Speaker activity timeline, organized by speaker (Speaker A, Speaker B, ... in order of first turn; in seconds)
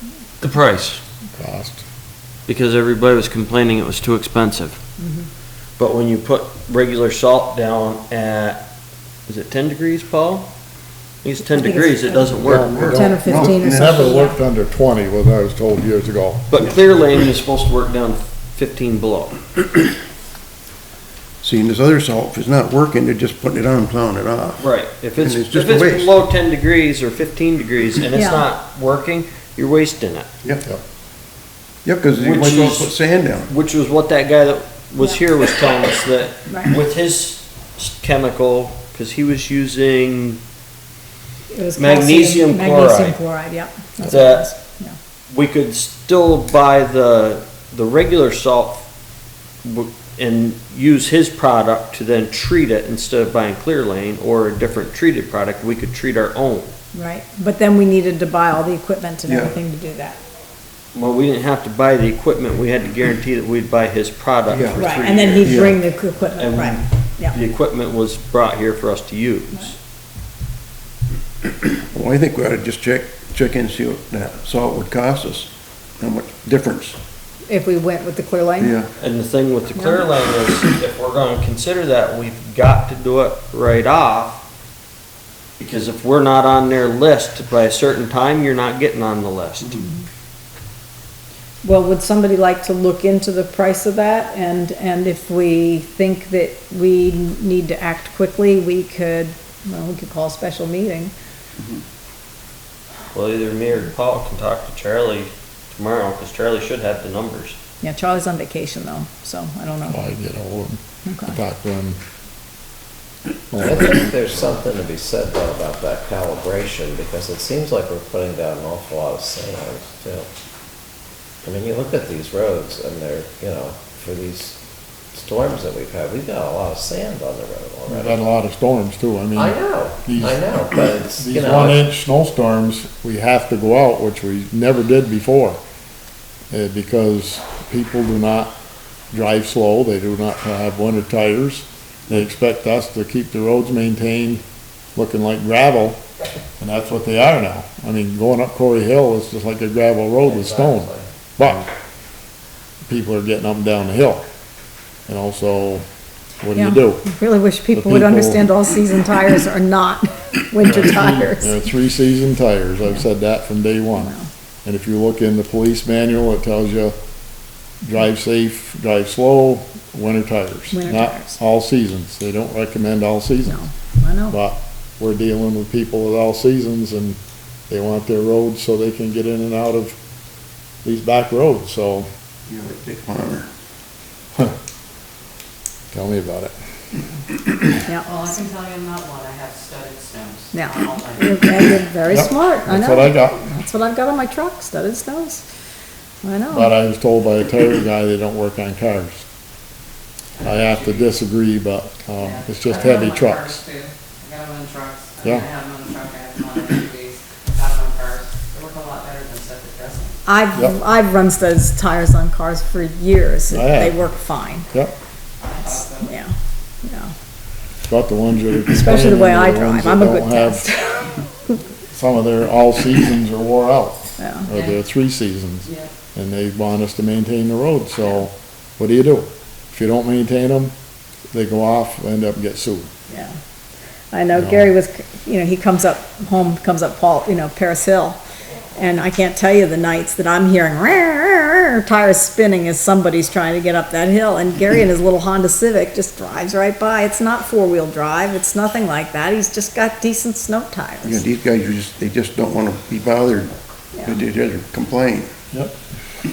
Speaker A: 0.4-1.0, 2.5-4.8, 5.8-8.6, 9.3-10.5, 11.2-13.0, 16.5-19.4, 24.6-30.3, 32.2-32.9, 33.5-40.4, 41.8-43.2, 44.0-44.5, 45.3-48.8, 49.6-56.7, 60.9-65.7, 66.4-69.7, 79.0-84.4, 85.6-89.8, 103.1-107.6
Speaker B: 1.4-1.8, 12.4-16.5, 109.9-112.0, 113.5-114.1, 127.9-135.6, 136.5-138.5, 139.1-144.4, 144.9-146.0, 146.6-151.7, 152.9-154.2, 155.1-155.8, 156.4-157.0, 157.7-158.5, 160.6-164.1, 164.6-166.9, 167.8-173.6, 174.3-179.9, 180.8-182.1, 185.9-186.5, 192.1-193.4, 196.5-199.2, 200.4-203.6, 205.2-205.5, 213.5-214.0, 217.9-220.7, 221.9-230.7, 231.3-232.9, 234.3-234.7, 255.5-255.8
Speaker C: 5.0-5.3, 11.6-12.2, 12.9-14.4, 28.1-28.5, 41.5-44.9, 56.9-60.2, 64.8-67.4, 77.5-78.8, 79.8-80.0, 91.6-101.1, 107.8-110.0, 111.0-111.3, 156.5-161.6, 164.0-164.3, 170.7-171.4, 173.5-174.4, 190.5-195.4, 196.2-196.7, 210.2-214.7, 215.6-216.3, 216.8-217.1, 218.7-221.2, 224.2-224.5, 234.1-238.2, 238.8-251.2
Speaker D: 12.4-14.1, 21.4-26.1, 31.8-33.5, 59.2-59.5, 64.5-64.9, 65.4-65.8, 71.7-75.5, 76.0-77.0, 78.6-78.9, 182.5-183.5, 251.0-255.3
Speaker E: 113.6-120.3, 121.4-124.6, 125.1-128.2, 129.3-131.9, 150.2-151.6
Speaker F: 188.0-191.4, 200.4-201.2, 202.2-210.2, 215.4-216.2, 225.6-225.9